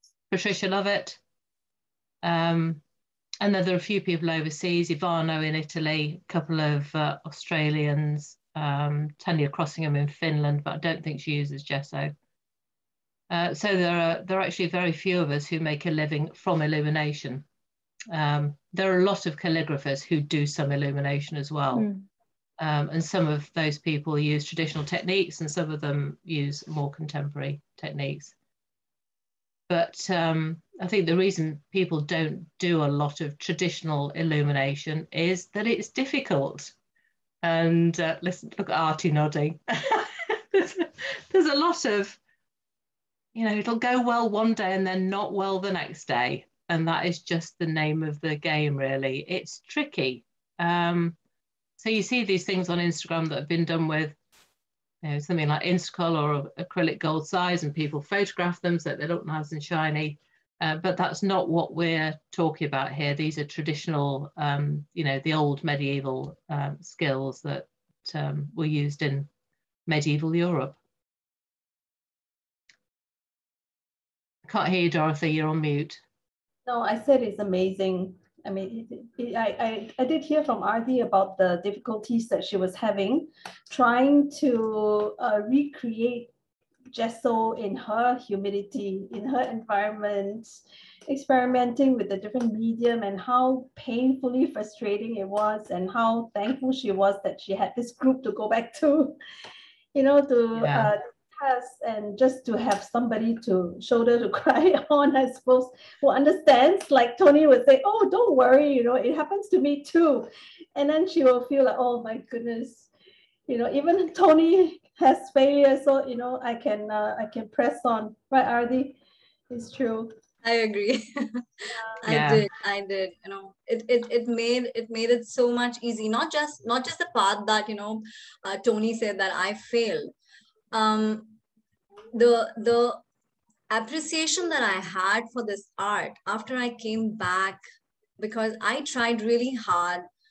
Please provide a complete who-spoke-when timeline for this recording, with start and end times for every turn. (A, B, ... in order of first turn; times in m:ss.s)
0:00.3-0:01.2 A
0:02.2-0:02.8 A
0:03.4-0:12.1 A
0:13.3-0:17.4 A
0:18.1-0:21.9 A
0:22.6-0:28.3 A
0:29.7-0:36.7 A
0:37.4-0:42.2 A
0:43.3-0:51.2 A
0:51.8-0:54.2 A
0:55.0-1:09.3 A
1:09.9-1:10.8 A
1:14.4-1:16.0 A
1:16.6-1:26.3 B
1:26.9-1:39.2 B
1:39.9-1:52.9 B
1:40.6-1:40.9 A
1:53.5-1:59.0 B
1:59.5-2:00.1 B
2:00.4-2:01.4 C
2:02.0-2:10.1 C
2:02.1-2:02.4 A
2:10.7-2:11.4 C
2:12.1-2:13.0 C
2:13.7-2:17.6 C
2:18.2-2:20.0 C